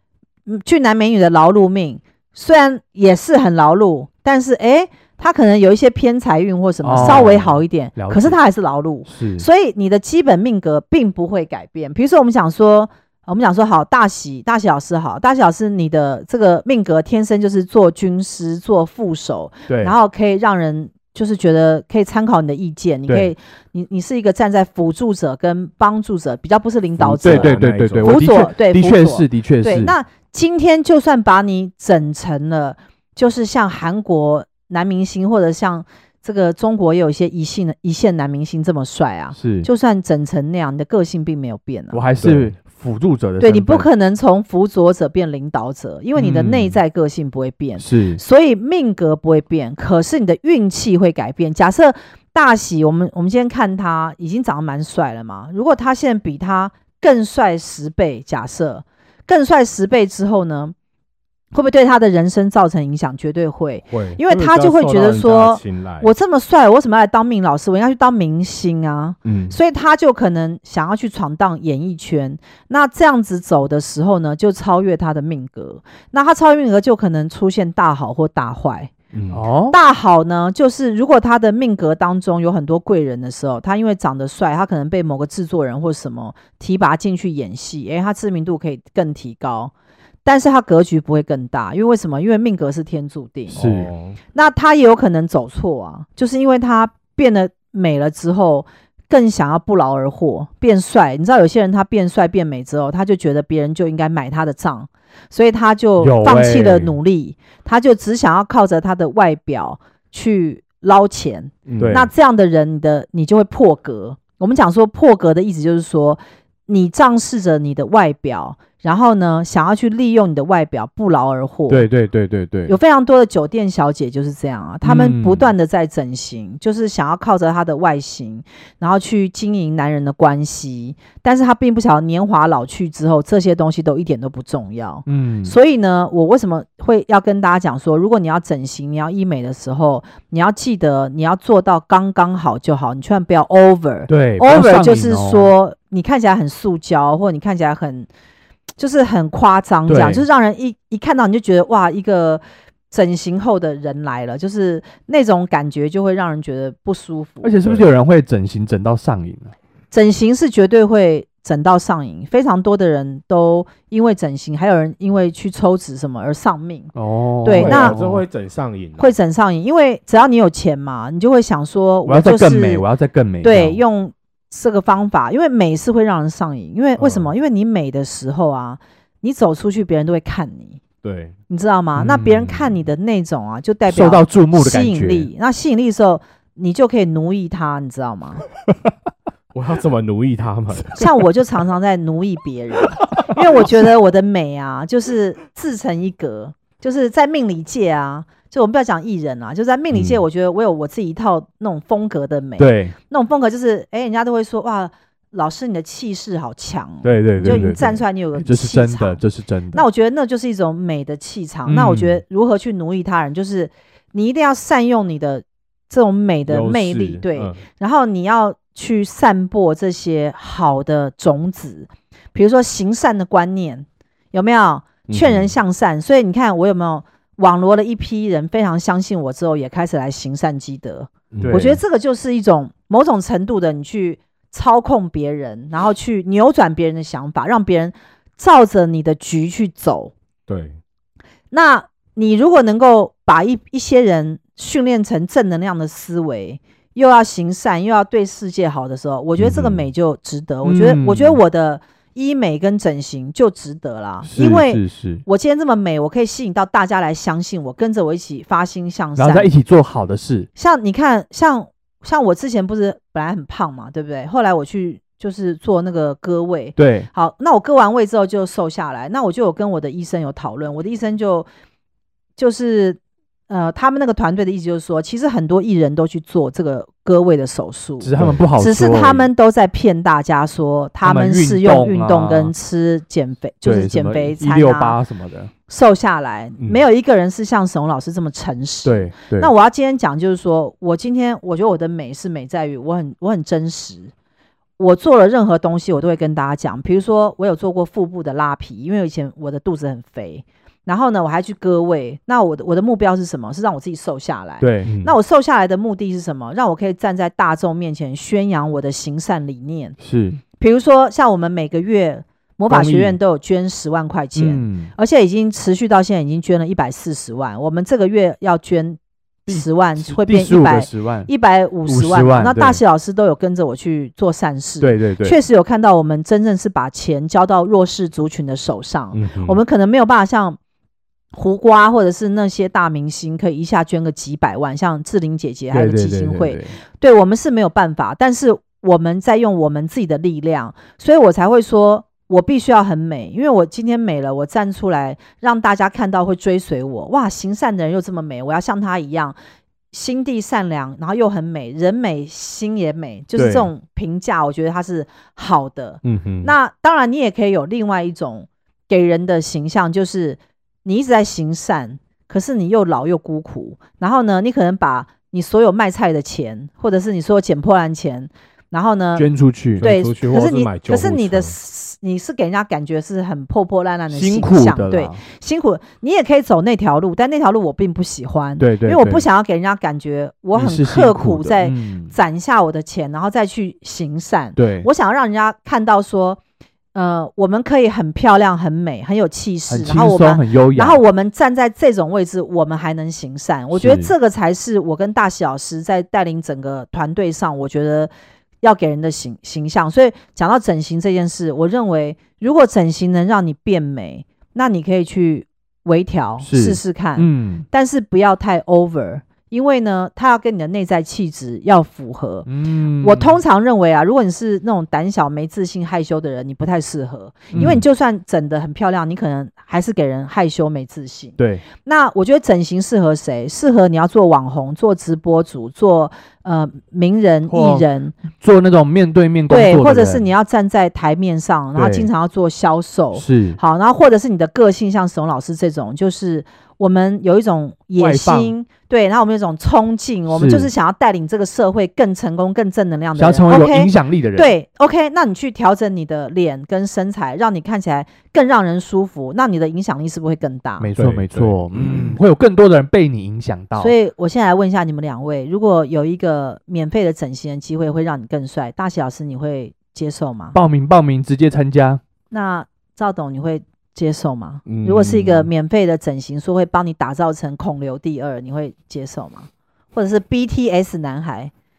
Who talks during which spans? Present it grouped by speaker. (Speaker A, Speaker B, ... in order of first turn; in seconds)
Speaker A: 0.5-42.0, 43.4-60.7, 61.5-78.9, 79.7-89.7, 90.2-93.6, 94.3-121.9, 122.7-148.1, 148.8-157.6, 159.9-168.0, 169.0-172.8, 173.4-180.8, 181.5-188.4, 190.9-209.2, 209.7-240.1, 241.5-259.5, 260.6-271.5, 272.4-285.0, 285.7-294.1, 294.8-310.0, 310.6-330.6, 331.3-349.4, 349.9-369.3, 369.8-386.4, 386.9-398.1, 398.6-412.5, 413.0-428.1, 429.5-450.9, 453.8-460.6, 462.3-471.5
Speaker B: 6.8-8.4, 9.1-9.4, 19.7-19.9, 23.1-23.3, 27.0-29.9, 39.3-39.7, 41.9-43.9, 46.1-46.8, 47.8-48.2, 79.3-79.8, 93.5-93.9, 106.0-106.9, 111.8-112.1, 121.7-122.8, 124.8-125.5, 135.1-135.5, 144.1-145.5, 149.8-150.2, 157.4-159.5, 166.9-168.2, 172.1-173.8, 181.9-182.6, 183.9-185.3, 202.6-202.9, 207.0-209.8, 211.7-212.2, 231.4-231.8, 250.6-251.4, 254.2-255.2, 259.1-260.5, 266.8-267.1, 278.0-279.3, 281.0-282.5, 283.6-285.5, 288.8-289.5, 304.6-304.9, 310.0-310.4, 314.3-314.9, 319.5-321.3, 321.9-322.8, 324.8-325.4, 335.7-336.8, 353.4-353.7, 369.1-369.8, 374.1-375.2, 378.6-379.2, 380.5-382.1, 384.6-384.9, 389.7-391.0, 393.7-394.1, 406.4-407.6, 412.4-413.4, 417.5-417.8, 421.4-421.6, 427.5-427.9, 428.4-430.3, 431.7-432.1, 433.1-433.6, 438.0-438.5, 440.3-440.7, 443.1-444.5, 450.8-453.9, 460.5-462.0
Speaker C: 27.2-28.2, 42.2-42.5, 63.9-66.1, 69.2-69.6, 79.1-79.4, 93.5-94.2, 111.7-111.9, 167.5-169.1, 177.0-177.3, 181.0-181.3, 189.5-190.9, 199.9-200.2, 207.4-207.8, 216.5-217.6, 225.1-225.5, 231.3-231.8, 240.5-240.8, 249.4-249.8, 278.2-278.4, 286.6-286.8, 304.9-305.1, 312.7-313.2, 329.1-329.6, 356.0-356.5, 369.8-371.5, 451.0-452.2, 464.7-465.5